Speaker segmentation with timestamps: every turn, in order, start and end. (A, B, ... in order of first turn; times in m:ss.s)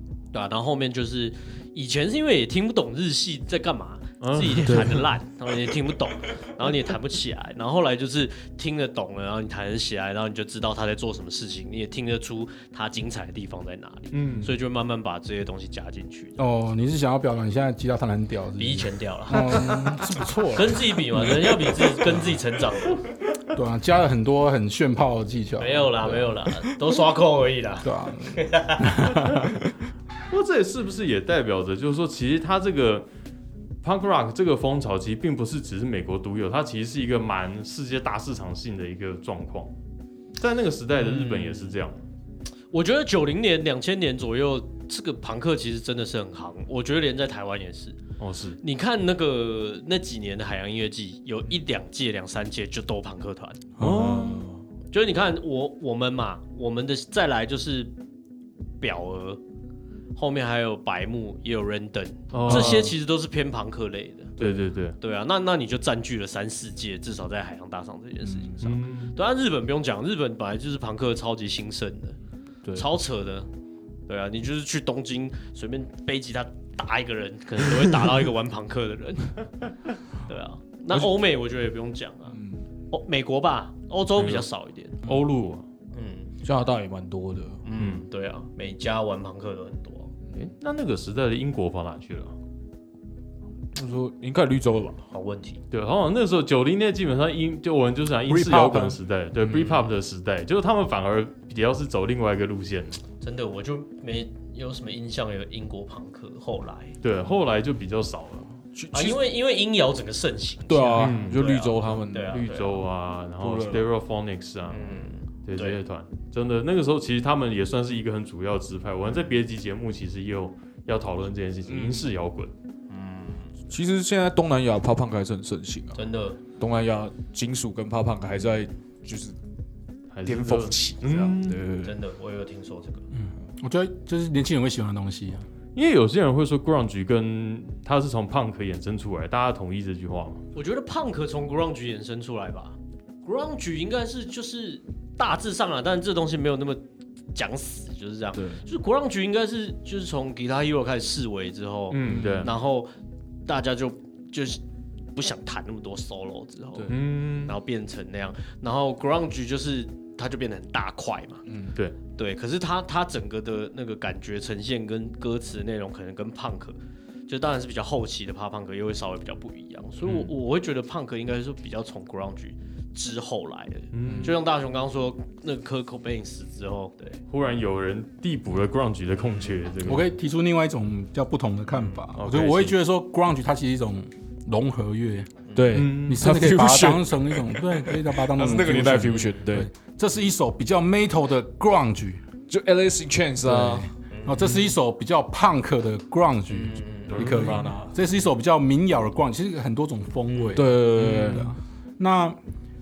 0:00.3-0:16.4 A
0:04.2-0:05.0 B
0:04.6-0:05.0 C
0:14.1-0:14.5 B
0:16.4-0:22.4 D
0:18.6-0:19.9 A
0:20.5-0:23.0 A
0:23.5-0:26.3 D
0:25.6-0:29.0 A
0:27.8-0:29.7 D
0:30.3-0:33.0 B
0:33.8-0:39.7 B
0:40.4-0:42.0 B
0:41.0-0:41.8 A
0:42.7-0:48.0 A
0:48.2-0:48.6 B
0:48.6-0:53.6 A
0:53.8-0:54.4 B
0:53.8-0:54.6 C
0:54.9-0:57.9 A
0:58.8-0:59.4 A
1:00.1-1:12.2 A
1:02.3-1:02.9 B
1:02.4-1:02.9 C
1:04.4-1:05.0 B
1:08.2-1:08.5 C
1:08.6-1:09.2 B
1:12.7-1:13.5 A
1:14.1-1:19.5 A
1:20.2-1:22.4 A
1:22.3-1:22.6 C
1:22.9-1:25.0 A
1:24.2-1:24.5 B
1:25.0-1:25.6 B
1:25.9-1:26.3 A
1:26.4-1:27.6 C
1:27.6-1:30.1 A
1:27.8-1:28.0 B
1:30.3-1:32.3 B
1:33.7-1:35.0 C
1:35.1-1:35.6 A
1:35.7-1:43.0 B
1:38.3-1:39.0 D
1:39.4-1:39.8 A
1:43.2-1:46.9 A
1:47.0-1:48.5 B
1:48.8-1:49.2 C
1:48.9-1:52.8 A
1:50.7-1:52.6 C
1:51.0-1:51.4 B
1:52.3-2:02.5 B
1:53.4-1:53.8 C
1:54.7-1:55.8 A
2:01.6-2:02.0 C
2:02.9-2:03.5 A
2:03.7-2:06.0 C
2:05.9-2:06.4 A
2:06.6-2:09.4 C
2:10.1-2:11.6 B
2:10.2-2:12.0 C
2:11.8-2:13.0 A
2:13.1-2:15.4 D
2:15.7-2:20.4 B
2:20.5-2:26.8 A
2:27.3-2:32.9 A
2:28.4-2:28.6 C
2:31.9-2:32.5 B
2:32.0-2:32.5 C
2:33.4-2:34.6 A
2:35.1-2:41.4 A
2:36.9-2:37.6 B
2:41.5-2:41.8 C
2:42.2-2:57.2 A
2:50.0-2:50.3 C
2:53.9-2:54.4 B
2:54.0-2:54.3 C
2:57.3-3:00.1 B
2:59.8-3:05.3 D
3:02.1-3:02.7 B
3:05.5-3:05.8 A
3:05.5-3:09.7 C
3:05.7-3:06.3 B
3:05.8-3:12.2 D
3:12.5-3:13.9 C
3:13.4-3:22.4 D
3:14.1-3:14.5 A
3:16.5-3:17.3 A
3:17.1-3:17.5 B
3:17.1-3:17.9 C
3:20.5-3:21.5 C